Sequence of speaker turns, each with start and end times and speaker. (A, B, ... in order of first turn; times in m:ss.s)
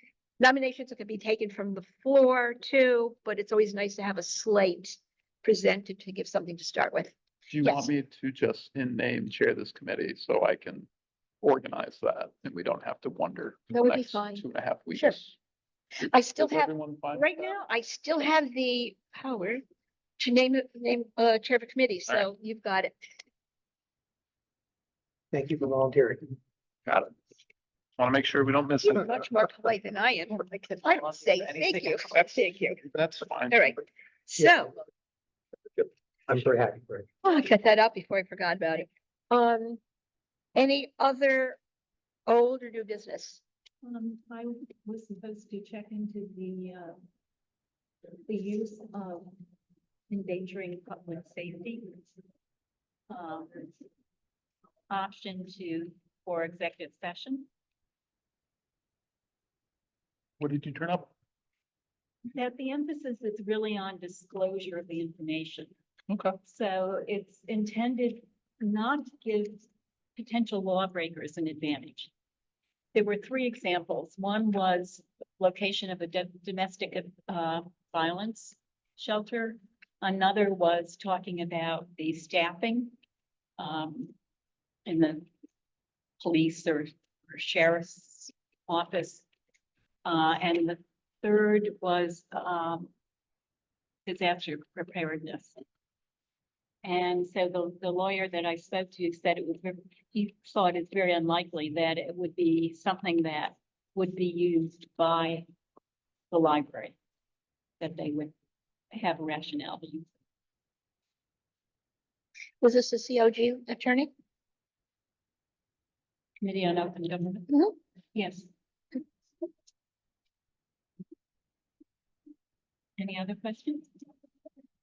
0:00.4-0:07.9 A
0:07.5-0:10.9 B
0:11.4-0:15.3 B
0:13.7-0:15.2 A
0:16.0-0:19.6 A
0:16.4-0:17.3 B
0:20.2-0:22.9 A
0:25.3-0:26.4 C
0:26.8-0:27.1 B
0:28.0-0:29.1 B
0:28.8-0:32.8 A
0:31.4-0:32.2 B
0:32.8-0:33.8 B
0:33.5-0:34.7 A
0:35.8-0:37.1 C
0:37.2-0:39.8 A
0:40.5-0:41.6 A
0:42.3-0:43.4 A
0:43.8-0:47.0 D
0:48.2-0:49.4 D
0:50.1-0:52.1 D
0:53.1-0:53.7 D
0:54.9-0:57.5 D
1:00.4-1:01.1 B
1:02.3-1:05.7 D
1:06.1-1:06.4 B
1:06.4-1:12.1 D
1:12.9-1:22.9 D
1:23.6-1:24.1 D
1:24.8-1:25.3 D
1:26.2-1:29.2 D
1:30.0-1:32.9 D
1:34.0-1:35.6 D
1:36.8-1:45.4 D
1:46.3-1:47.0 D
1:47.8-1:48.3 D
1:48.9-1:50.1 D
1:52.6-1:54.1 A
1:56.4-1:57.5 D
1:58.1-1:58.5 D
2:03.0-2:03.9 D